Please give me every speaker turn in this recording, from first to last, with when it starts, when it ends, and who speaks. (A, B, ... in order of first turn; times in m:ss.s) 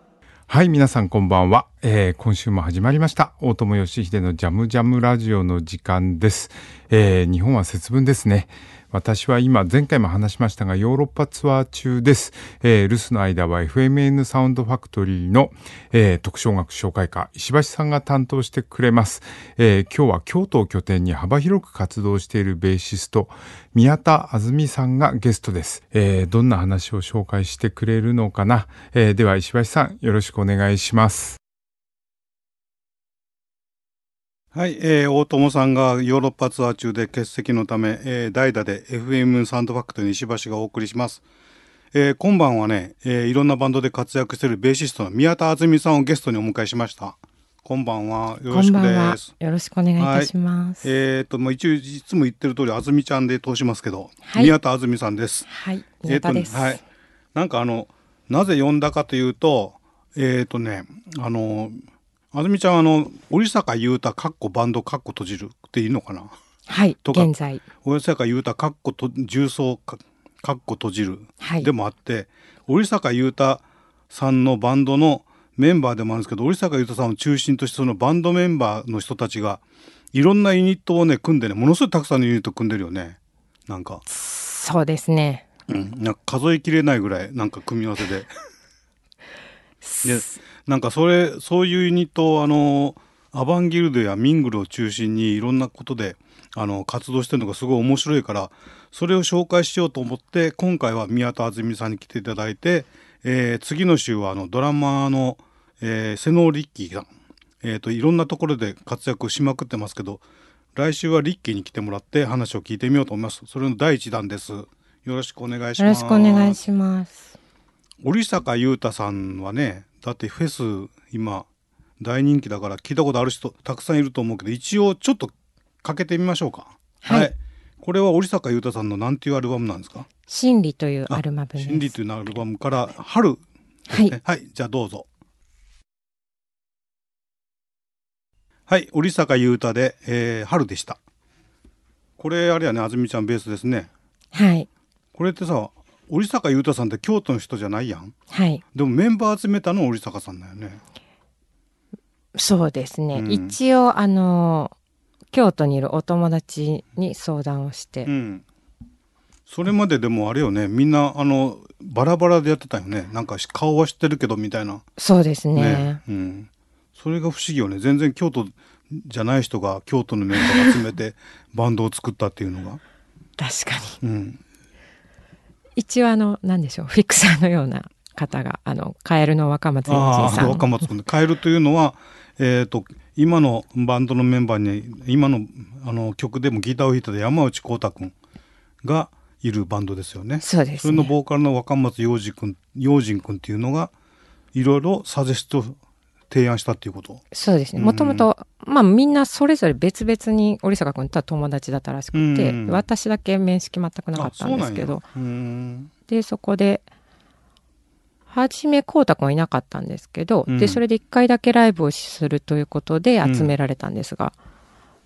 0:00.5-0:31.4 A
0:34.5-0:41.2 B
0:41.9-0:49.3 B
0:48.5-0:50.9 C
0:50.0-0:50.3 B
0:50.8-0:55.5 B
0:54.2-0:54.6 C
0:55.5-0:56.8 C
0:56.1-0:56.8 B
0:57.4-1:01.8 B
1:02.3-1:06.3 B
1:06.7-1:07.6 C
1:07.0-1:07.3 B
1:07.8-1:19.6 B
1:11.4-1:11.7 C
1:20.1-1:24.0 B
1:24.1-1:25.4 C
1:25.7-1:28.3 B
1:29.8-1:30.4 C
1:30.0-1:47.1 B
1:47.6-1:50.2 B
1:50.8-1:56.6 B
1:55.8-1:57.3 C
1:58.0-2:01.5 B
2:02.0-2:10.1 B
2:07.0-2:07.3 C
2:10.3-2:12.0 C
2:11.1-2:15.1 B
2:13.9-2:14.2 C
2:18.7-2:21.0 B
2:22.2-2:23.9 B
2:24.3-2:24.7 C
2:25.1-2:28.2 B
2:28.3-2:28.6 C
2:28.7-2:30.8 B
2:32.4-2:34.7 C
2:33.1-2:33.6 B
2:35.3-2:38.1 C
2:38.1-2:38.4 B
2:39.5-2:44.8 B
2:45.0-2:46.0 C
2:45.6-2:52.8 B
2:53.4-2:54.0 C
2:54.0-2:54.4 B
2:55.8-3:00.7 C
2:59.9-3:08.1 B
3:08.8-3:13.9 B
3:10.4-3:11.1 C
3:14.5-3:15.8 B
3:16.3-3:17.2 B
3:17.3-3:25.0 C
3:17.8-3:18.3 B
3:22.1-3:22.8 B
3:24.2-3:25.9 B
3:26.1-3:26.9 C
3:28.3-3:34.4 C
3:30.5-3:30.8 B
3:33.2-3:33.5 B